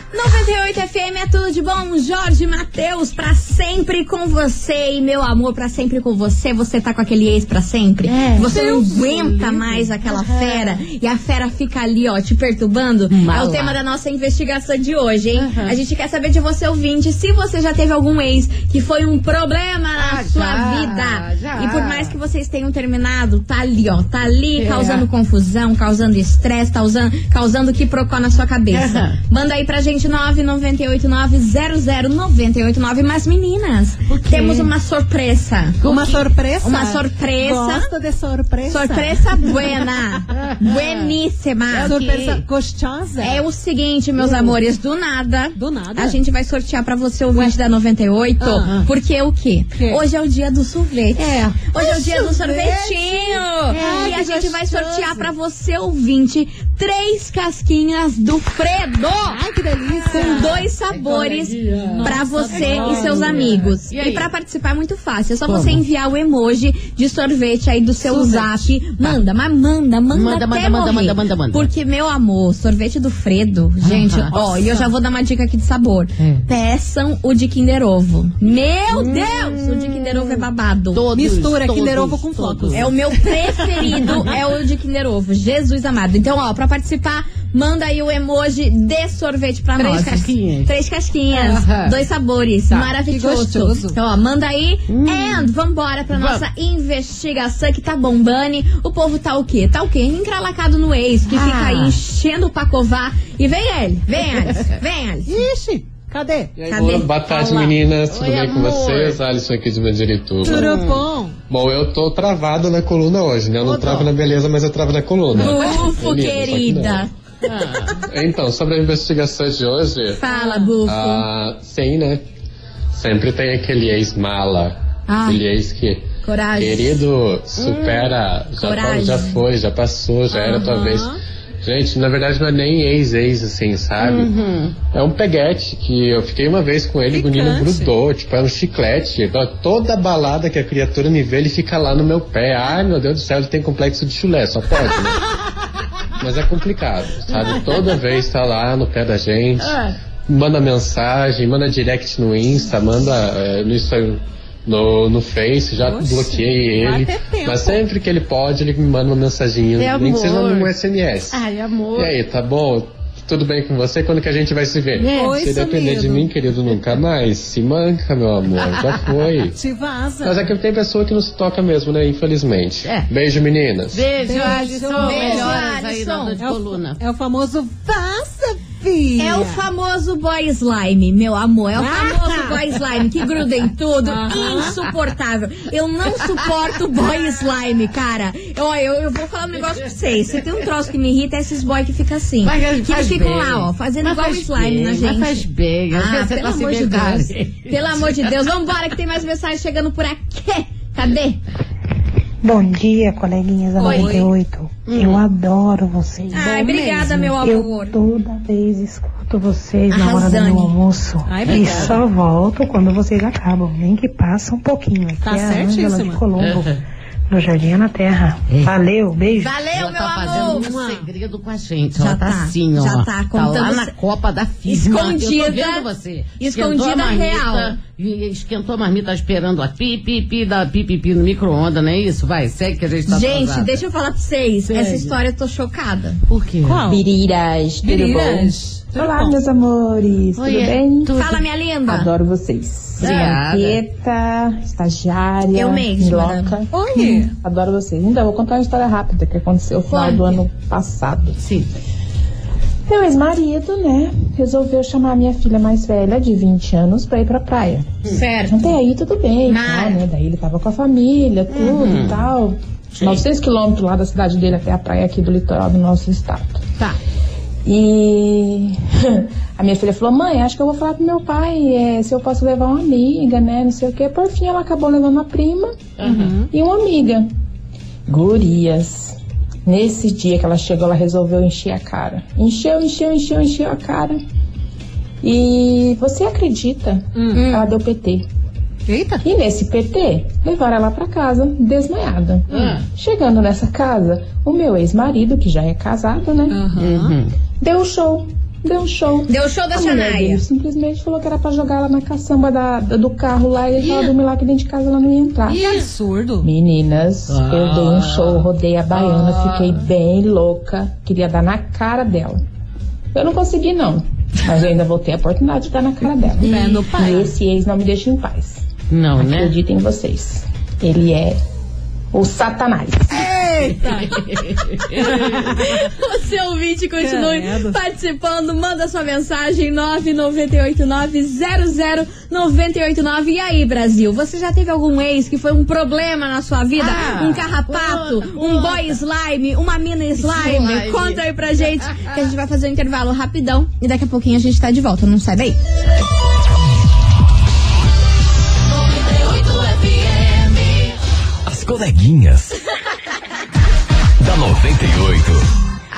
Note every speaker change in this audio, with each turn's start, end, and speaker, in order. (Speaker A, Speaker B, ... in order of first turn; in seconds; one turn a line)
Speaker A: 0.1-35.9
Speaker B: 8.1-8.5
Speaker C: 8.4-10.4
Speaker B: 13.1-13.8
Speaker B: 15.3-15.8
Speaker B: 20.0-22.1
Speaker B: 24.6-25.1
Speaker B: 28.7-29.2
Speaker B: 34.1-34.7
Speaker C: 35.8-39.8
Speaker B: 35.9-36.2
Speaker A: 36.6-37.9
Speaker A: 38.7-42.0
Speaker B: 40.3-41.1
Speaker B: 41.7-42.4
Speaker C: 41.8-43.4
Speaker A: 43.2-59.4
Speaker C: 44.2-44.5
Speaker C: 45.5-46.2
Speaker C: 48.4-48.8
Speaker C: 49.7-50.0
Speaker C: 51.1-55.3
Speaker B: 53.7-54.0
Speaker C: 59.3-60.6
Speaker B: 59.9-64.3
Speaker A: 60.1-81.0
Speaker C: 61.9-63.7
Speaker B: 65.5-65.8
Speaker C: 68.0-68.7
Speaker B: 70.1-71.7
Speaker B: 73.8-74.8
Speaker C: 74.5-74.8
Speaker B: 76.2-76.4
Speaker B: 78.9-84.3
Speaker C: 81.1-82.9
Speaker A: 82.7-105.4
Speaker B: 89.8-90.7
Speaker B: 91.3-92.0
Speaker C: 93.0-94.0
Speaker B: 94.9-95.5
Speaker B: 96.1-96.4
Speaker B: 101.3-102.0
Speaker B: 104.3-104.7
Speaker C: 105.2-106.5
Speaker D: 106.6-110.8
Speaker A: 106.7-107.1
Speaker B: 107.3-109.2
Speaker C: 110.4-111.4
Speaker B: 110.4-111.0
Speaker D: 111.5-117.1
Speaker B: 113.6-114.0
Speaker A: 115.3-117.1
Speaker B: 117.4-118.0
Speaker D: 118.0-120.2
Speaker A: 120.2-121.2
Speaker C: 120.3-120.6
Speaker D: 120.8-122.2
Speaker D: 122.9-134.3
Speaker A: 125.1-125.4
Speaker A: 126.2-127.0
Speaker B: 127.5-128.1
Speaker A: 128.6-129.4
Speaker C: 130.3-131.2
Speaker B: 134.0-134.7
Speaker D: 134.8-145.2
Speaker C: 137.1-137.9
Speaker D: 146.2-161.4
Speaker B: 147.3-148.0
Speaker B: 149.6-149.9
Speaker C: 155.8-157.8
Speaker B: 159.8-160.7
Speaker B: 161.3-162.2
Speaker D: 161.9-169.6
Speaker B: 165.0-165.3
Speaker C: 165.1-166.3
Speaker B: 168.6-169.0
Speaker C: 169.6-170.5
Speaker D: 170.2-174.1
Speaker B: 172.8-173.1
Speaker B: 173.9-177.0
Speaker C: 174.2-175.7
Speaker A: 174.4-176.4
Speaker C: 176.4-179.6
Speaker A: 179.2-201.4
Speaker C: 181.8-182.6
Speaker C: 184.0-184.8
Speaker B: 184.4-184.7
Speaker B: 189.7-190.4
Speaker B: 192.4-198.3
Speaker E: 202.4-219.5
Speaker A: 203.8-204.3
Speaker C: 203.8-204.3
Speaker B: 204.9-205.2
Speaker A: 206.3-208.0
Speaker C: 206.3-207.1
Speaker A: 209.9-210.7
Speaker C: 211.2-212.0
Speaker B: 211.4-212.0
Speaker C: 215.2-216.2
Speaker B: 216.4-216.8
Speaker A: 219.4-220.7
Speaker B: 219.7-233.8
Speaker C: 220.2-221.1
Speaker A: 221.9-223.9
Speaker A: 224.7-225.8
Speaker A: 226.4-227.8
Speaker A: 233.1-236.2
Speaker B: 234.7-235.1
Speaker B: 236.3-236.8
Speaker C: 236.6-237.0
Speaker F: 236.9-241.2
Speaker C: 237.8-239.4
Speaker B: 240.4-241.4
Speaker A: 241.2-242.1
Speaker F: 241.8-251.4
Speaker B: 243.0-243.8
Speaker A: 245.5-246.5
Speaker C: 246.7-247.3
Speaker A: 249.9-250.4
Speaker B: 251.4-251.7
Speaker F: 252.9-258.0
Speaker A: 258.1-258.7
Speaker F: 258.5-266.6
Speaker A: 259.5-260.0
Speaker B: 261.5-262.2
Speaker B: 262.9-263.2
Speaker F: 267.6-275.9
Speaker B: 276.0-276.3
Speaker C: 276.0-276.5
Speaker F: 276.5-277.3
Speaker F: 278.1-284.2
Speaker F: 285.2-288.3
Speaker C: 287.1-287.4
Speaker A: 287.3-287.6
Speaker C: 288.9-289.2
Speaker F: 289.2-296.6
Speaker B: 292.5-292.8
Speaker C: 292.5-292.8
Speaker C: 296.5-297.1
Speaker B: 296.8-297.3
Speaker F: 297.6-305.8
Speaker A: 299.3-300.4
Speaker B: 303.8-304.1
Speaker B: 305.5-305.9
Speaker C: 305.5-306.5
Speaker F: 306.4-312.4
Speaker B: 307.3-309.8
Speaker F: 313.1-318.6
Speaker C: 316.4-317.3
Speaker B: 318.9-319.5
Speaker F: 319.2-321.4
Speaker F: 322.1-323.3
Speaker C: 323.1-324.2
Speaker B: 323.9-325.3
Speaker C: 325.0-325.6
Speaker A: 325.4-345.6
Speaker C: 327.0-327.8
Speaker B: 336.8-339.0
Speaker B: 340.2-342.1
Speaker B: 349.4-350.5
Speaker G: 351.4-352.6
Speaker G: 354.2-355.4